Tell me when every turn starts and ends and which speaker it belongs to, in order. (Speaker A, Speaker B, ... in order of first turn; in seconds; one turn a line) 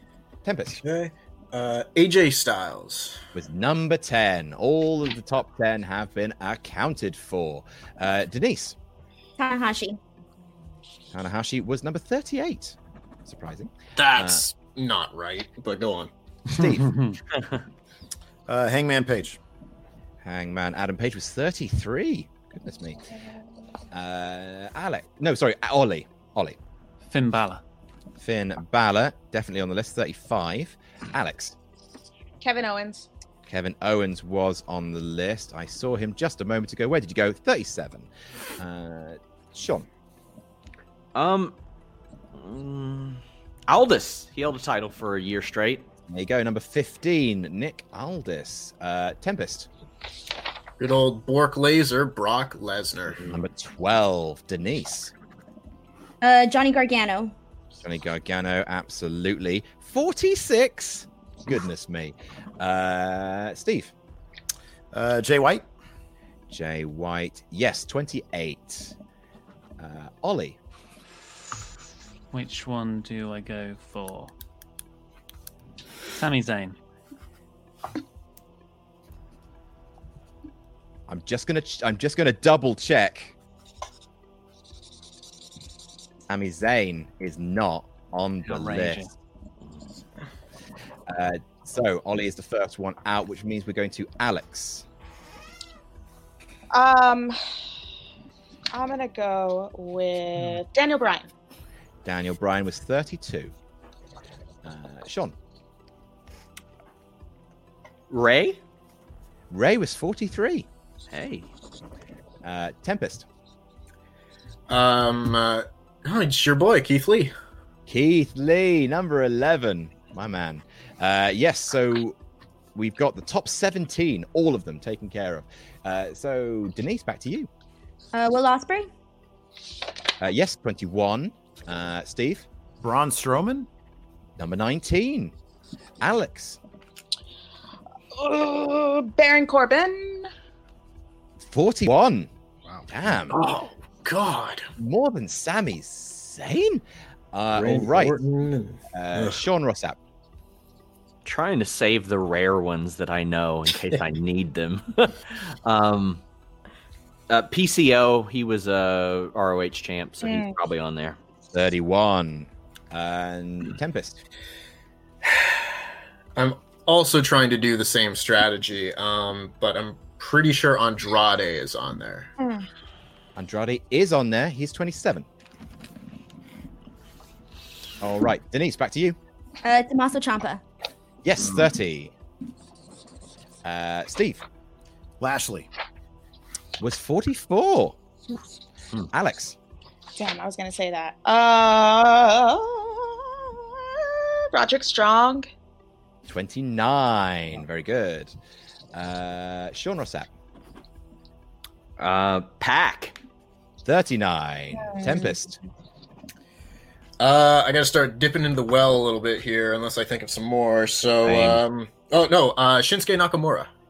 Speaker A: 0.4-0.8
Speaker B: 0.7-3.2
Speaker A: 3.3-8.8
Speaker C: 9.4-10.0
Speaker A: 11.1-14.5
Speaker B: 13.9-16.1
Speaker A: 16.5-16.9
Speaker D: 16.6-17.2
Speaker E: 18.5-19.4
Speaker A: 20.2-23.0
Speaker A: 23.9-26.6
Speaker D: 27.1-27.6
Speaker A: 28.2-31.6
Speaker F: 32.4-33.1
Speaker A: 33.5-39.9
Speaker G: 41.1-41.5
Speaker G: 42.3-45.9
Speaker A: 46.1-49.7
Speaker B: 50.8-53.3
Speaker A: 53.2-55.1
Speaker C: 56.2-57.3
Speaker A: 57.7-63.9
Speaker E: 64.9-65.6
Speaker A: 66.5-68.9
Speaker A: 69.8-70.6
Speaker D: 72.3-74.3
Speaker D: 76.1-76.8
Speaker A: 81.1-83.3
Speaker A: 86.3-89.1
Speaker D: 88.5-89.1
Speaker A: 91.1-94.8
Speaker F: 96.7-97.4
Speaker F: 98.7-101.3
Speaker A: 102.0-103.5
Speaker A: 104.6-105.3
Speaker G: 108.1-108.6
Speaker A: 109.5-110.7
Speaker G: 111.1-111.5
Speaker A: 112.4-113.2
Speaker B: 114.7-117.3
Speaker A: 117.9-122.2
Speaker A: 122.7-127.5
Speaker C: 128.1-128.9
Speaker A: 130.2-132.5
Speaker E: 132.8-133.7
Speaker A: 134.4-135.3
Speaker A: 136.0-136.6
Speaker F: 138.1-140.3
Speaker A: 141.4-142.3
Speaker A: 142.9-143.4
Speaker B: 143.3-144.6
Speaker A: 144.8-148.2
Speaker B: 147.5-149.3
Speaker A: 148.9-150.0
Speaker G: 151.2-156.2
Speaker G: 157.3-161.2
Speaker F: 160.2-160.5
Speaker A: 161.5-164.2
Speaker B: 165.3-165.6
Speaker B: 166.3-172.3
Speaker F: 172.4-172.7
Speaker A: 173.3-175.3
Speaker A: 178.0-179.2
Speaker C: 179.6-180.6
Speaker A: 181.2-182.1
Speaker A: 183.6-184.4
Speaker E: 185.2-185.7
Speaker A: 186.8-187.9
Speaker A: 189.1-189.6
Speaker F: 190.2-195.5
Speaker A: 196.2-198.3
Speaker A: 198.9-200.3
Speaker G: 202.0-203.2
Speaker A: 203.8-205.6
Speaker F: 204.8-205.3
Speaker B: 207.2-213.7
Speaker G: 211.2-211.6